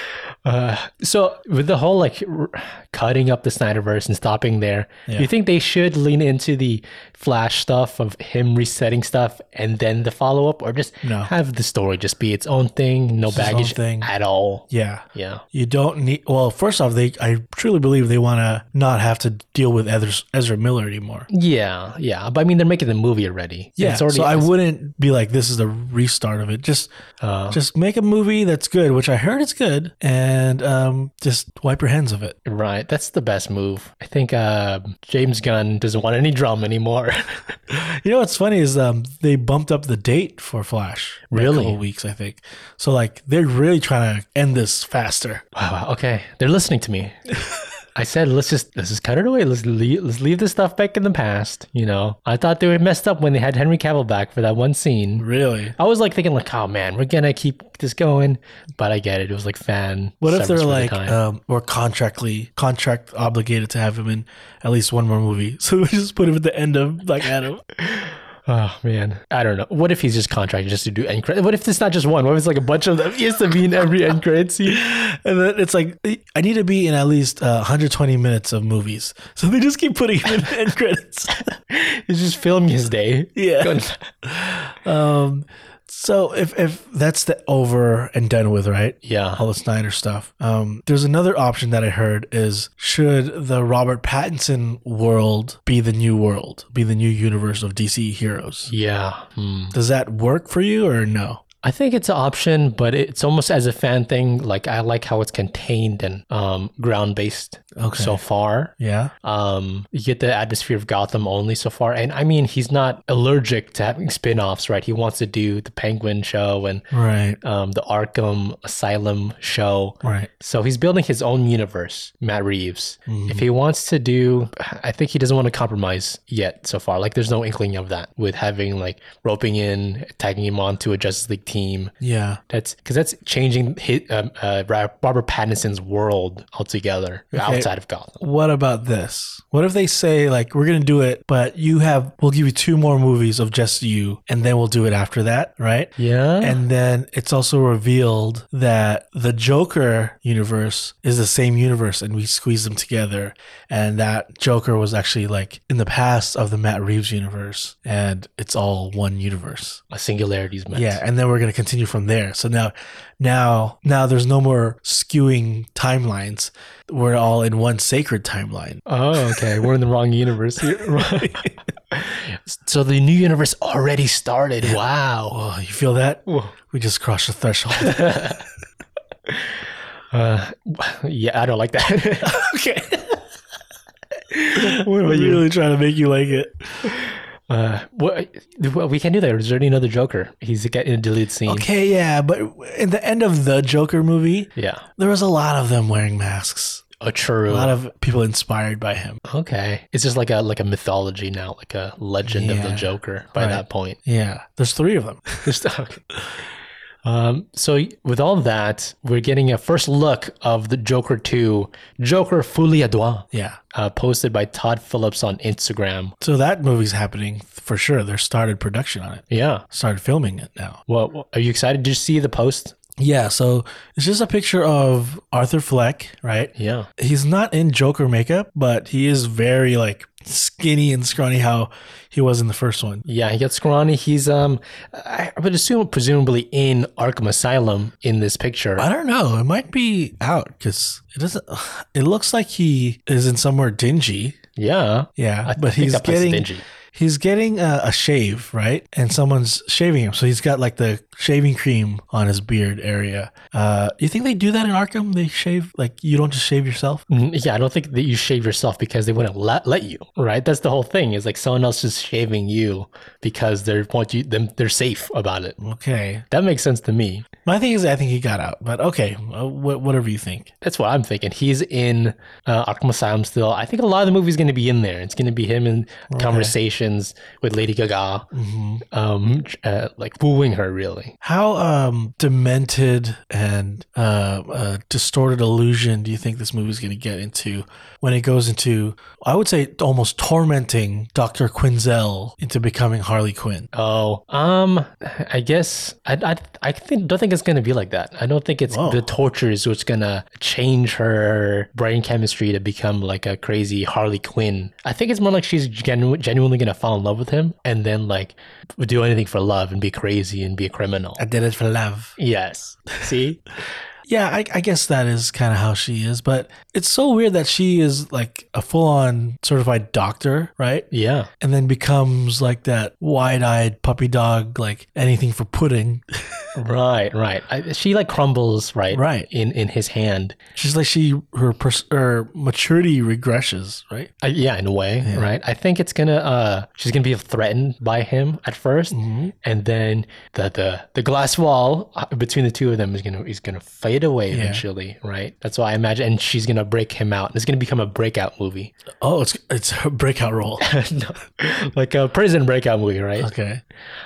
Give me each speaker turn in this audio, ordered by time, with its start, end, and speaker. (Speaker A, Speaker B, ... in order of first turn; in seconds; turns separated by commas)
Speaker A: 0.5-15.4, Speaker B: 11.0-11.3, Speaker B: 13.3-14.1, Speaker B: 14.7-21.3, Speaker A: 21.3-24.5, Speaker B: 23.8-26.9, Speaker A: 27.2-27.6, Speaker B: 27.5-32.4, Speaker A: 32.5-37.6, Speaker B: 37.7-45.4, Speaker A: 41.3-41.8, Speaker A: 45.5-47.1, Speaker A: 48.0-61.2, Speaker B: 55.2-55.8, Speaker B: 60.2-67.6, Speaker A: 67.8-74.8, Speaker B: 74.7-81.4, Speaker A: 81.7-84.1, Speaker B: 83.4-98.7, Speaker A: 89.0-89.4, Speaker A: 98.7-99.8, Speaker B: 99.7-101.4, Speaker A: 101.6-108.7, Speaker B: 107.8-108.2, Speaker B: 108.8-109.1, Speaker A: 109.2-116.9, Speaker B: 116.9-117.4, Speaker A: 117.4-131.9, Speaker B: 120.0-120.3, Speaker B: 123.1-123.5, Speaker B: 132.0-132.4, Speaker A: 132.5-138.2, Speaker B: 137.3-137.7, Speaker B: 138.2-159.8, Speaker A: 146.0-146.6, Speaker A: 159.9-161.0, Speaker B: 160.7-169.7, Speaker A: 168.9-175.4, Speaker B: 170.7-171.5, Speaker B: 174.6-178.2, Speaker A: 176.3-176.5, Speaker A: 177.8-178.4, Speaker A: 179.3-179.6, Speaker A: 180.1-182.4, Speaker B: 182.2-183.2, Speaker A: 184.3-185.4, Speaker B: 184.6-186.9, Speaker A: 186.9-191.7, Speaker B: 191.5-196.8, Speaker A: 194.6-194.9, Speaker A: 197.0-197.7, Speaker B: 197.5-199.2, Speaker A: 199.2-204.0, Speaker B: 202.3-205.5, Speaker A: 205.4-206.0, Speaker A: 207.0-216.1, Speaker B: 213.3-213.6, Speaker B: 216.2-220.8, Speaker A: 219.3-219.7, Speaker A: 220.9-222.8, Speaker B: 223.0-233.0, Speaker A: 226.6-226.9, Speaker A: 233.1-238.9, Speaker B: 238.8-244.4, Speaker A: 244.6-246.6, Speaker B: 245.2-257.0, Speaker A: 257.1-265.6, Speaker B: 265.6-266.2, Speaker A: 266.3-267.3, Speaker B: 267.4-270.5, Speaker A: 270.6-278.3, Speaker B: 276.1-276.5, Speaker B: 278.3-278.8, Speaker A: 278.9-281.1, Speaker B: 281.2-293.7, Speaker A: 293.7-311.2, Speaker B: 298.7-299.1, Speaker B: 311.2-312.1, Speaker A: 312.2-313.4, Speaker B: 314.1-320.9, Speaker A: 320.9-321.3, Speaker B: 321.4-326.5, Speaker A: 326.6-330.4, Speaker B: 328.9-329.3, Speaker B: 330.6-334.1, Speaker A: 334.2-348.7, Speaker B: 335.0-335.3, Speaker B: 338.9-339.3, Speaker B: 344.3-344.6, Speaker B: 349.0-350.7, Speaker A: 350.6-353.3, Speaker B: 353.2-353.6